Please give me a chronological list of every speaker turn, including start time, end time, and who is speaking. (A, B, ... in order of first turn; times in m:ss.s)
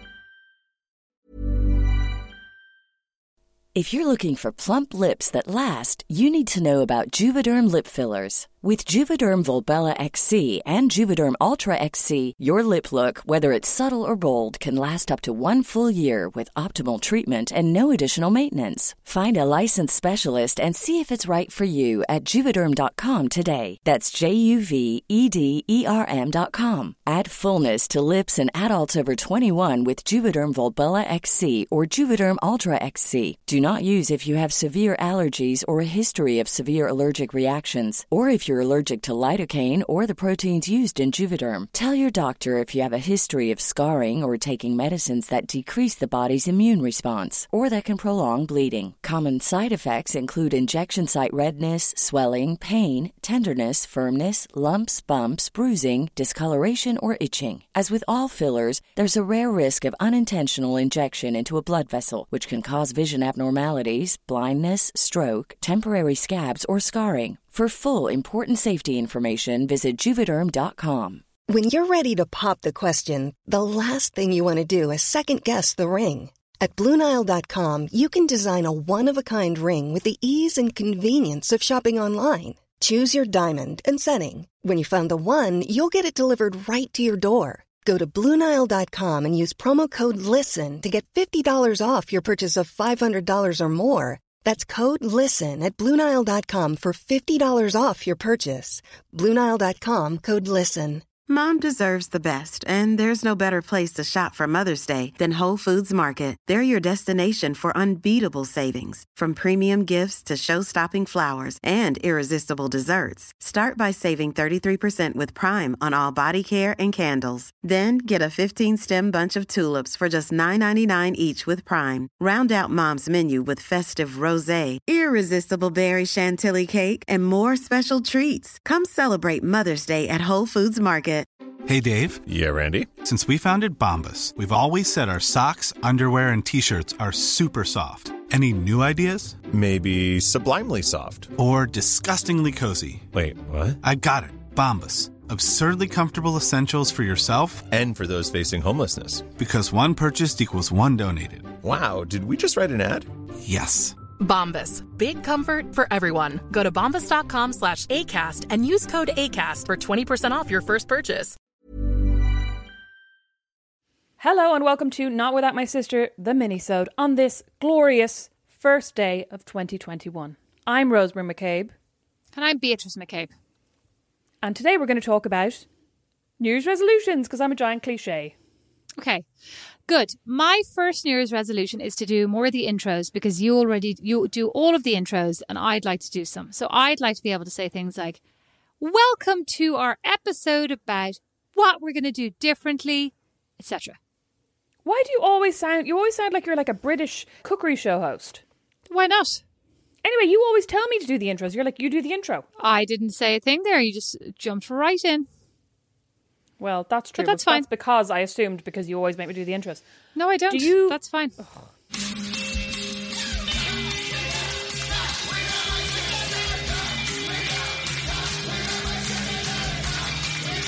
0:03.7-1:11.2 A
1:11.5-1:41.1 B
1:41.3-2:11.3 C
2:11.7-2:12.2 D
2:12.2-2:12.9 E
2:13.0-2:19.4 D
2:19.5-2:21.3 E
2:21.4-2:23.1 D
2:23.1-2:23.8 E
2:23.8-2:27.7 D
2:27.7-2:29.3 E
2:29.4-2:31.6 D
2:31.6-2:33.1 E
2:33.4-2:34.0 D
2:34.2-2:41.4 F
2:44.2-2:51.7 G
2:52.3-2:53.3 H
2:54.4-2:55.7 G
2:56.4-2:58.3 G
2:59.0-2:59.3 H
2:59.9-3:08.2 H
3:08.8-3:14.0 H
3:14.8-3:18.4 G
3:18.9-3:19.4 H
3:20.0-3:22.5 G
3:22.6-3:25.3 H
3:26.6-3:29.8 G
3:27.2-3:27.7 H
3:30.2-3:31.4 H
3:30.5-3:31.4 G